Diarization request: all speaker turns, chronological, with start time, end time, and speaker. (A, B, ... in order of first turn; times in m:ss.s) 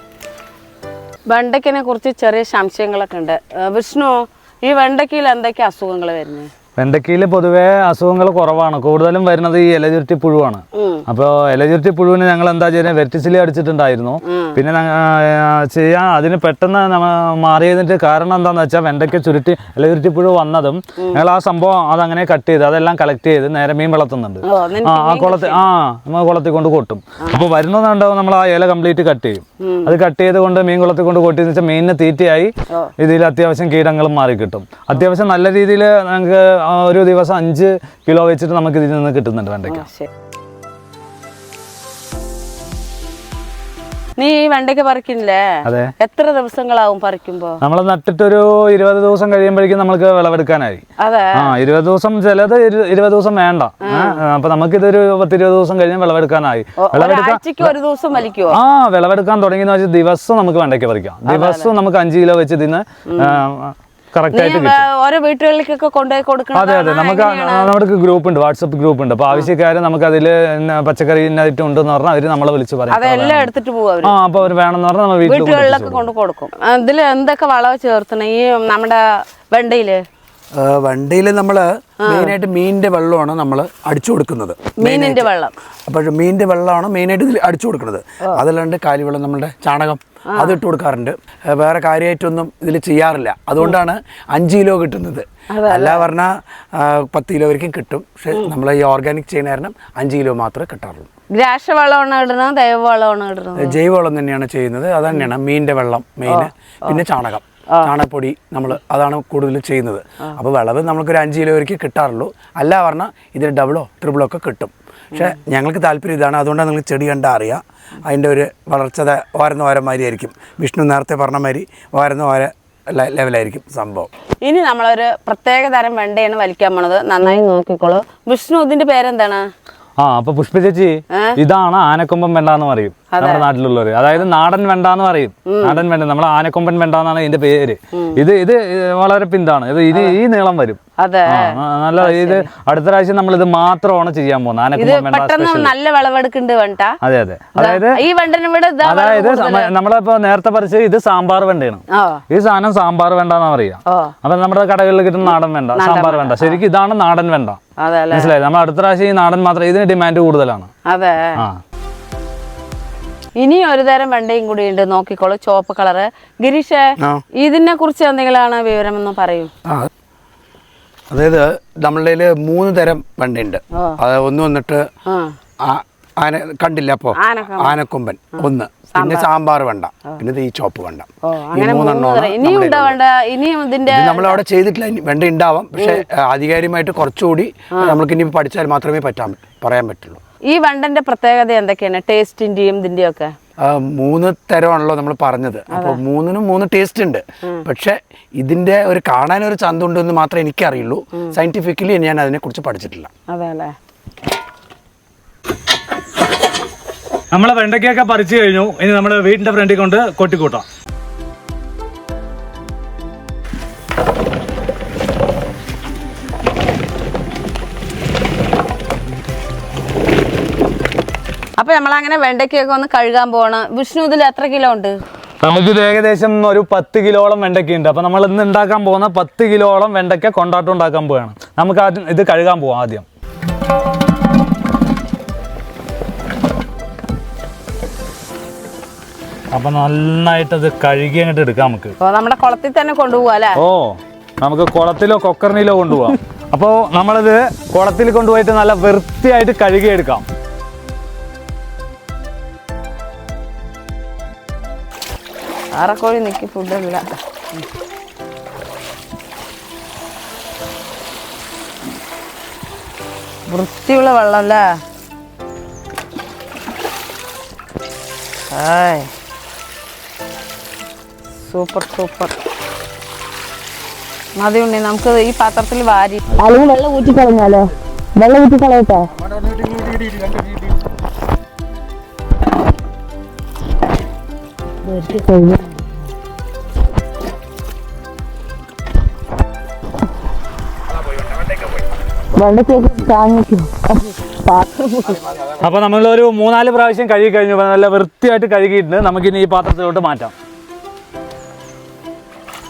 0:01.3-0:06.5 A
0:06.8-0:39.9 B
0:10.7-0:11.0 A
0:14.2-0:14.6 A
0:24.4-0:25.6 A
0:29.6-0:29.9 A
0:39.6-0:40.1 A
0:44.2-0:47.6 A
0:45.6-0:45.9 B
0:47.6-0:50.8 B
0:51.0-0:51.5 A
0:51.3-0:57.7 B
0:53.8-0:54.2 A
0:56.8-0:58.6 A
0:58.5-1:04.8 B
1:01.2-1:01.7 A
1:03.1-1:03.4 A
1:04.3-1:07.7 A
1:06.5-1:13.5 B
1:12.9-1:14.2 A
1:14.0-1:16.0 B
1:15.2-1:20.0 A
1:20.5-1:25.3 C
1:22.0-1:22.3 A
1:24.8-1:25.5 A
1:25.9-1:41.1 C
1:30.3-1:30.6 A
1:35.5-1:36.1 A
1:41.3-1:43.8 A
1:43.6-2:04.1 C
1:46.3-1:47.0 A
2:04.4-2:09.4 A
2:10.0-2:25.7 B
2:11.1-2:11.4 A
2:13.1-2:13.5 A
2:15.5-2:15.8 A
2:17.9-2:18.2 A
2:19.9-2:20.2 A
2:21.0-2:22.5 A
2:24.8-2:27.0 A
2:27.0-2:28.0 B
2:27.6-2:29.7 A
2:28.8-2:37.6 B
2:31.9-2:32.2 A
2:33.8-2:34.1 A
2:35.3-2:36.6 A
2:37.8-2:38.3 A
2:38.1-2:40.7 B
2:40.9-2:41.4 A
2:43.4-2:49.5 A
2:51.1-2:54.9 C
2:55.0-2:55.4 A
2:55.6-3:03.0 C
2:57.1-2:57.8 A
2:58.3-2:59.3 A
3:01.2-3:04.4 A
3:03.9-3:10.2 C
3:05.8-3:06.0 A
3:07.7-3:08.0 A
3:10.5-3:13.3 A
3:13.6-3:23.1 C
3:15.7-3:16.0 A
3:23.3-3:23.7 A
3:27.3-3:30.6 B
3:41.6-3:45.0 A
3:45.4-3:53.0 B
3:59.5-4:01.9 B
4:02.0-4:03.6 A
4:03.6-4:10.2 B
4:15.8-4:17.0 A
4:23.5-4:24.7 A
4:28.5-4:29.1 A
4:31.4-4:32.3 A
4:34.4-4:36.5 A
4:36.4-4:40.4 D
4:44.9-4:45.8 D
4:52.3-4:54.3 D
4:55.6-5:00.3 B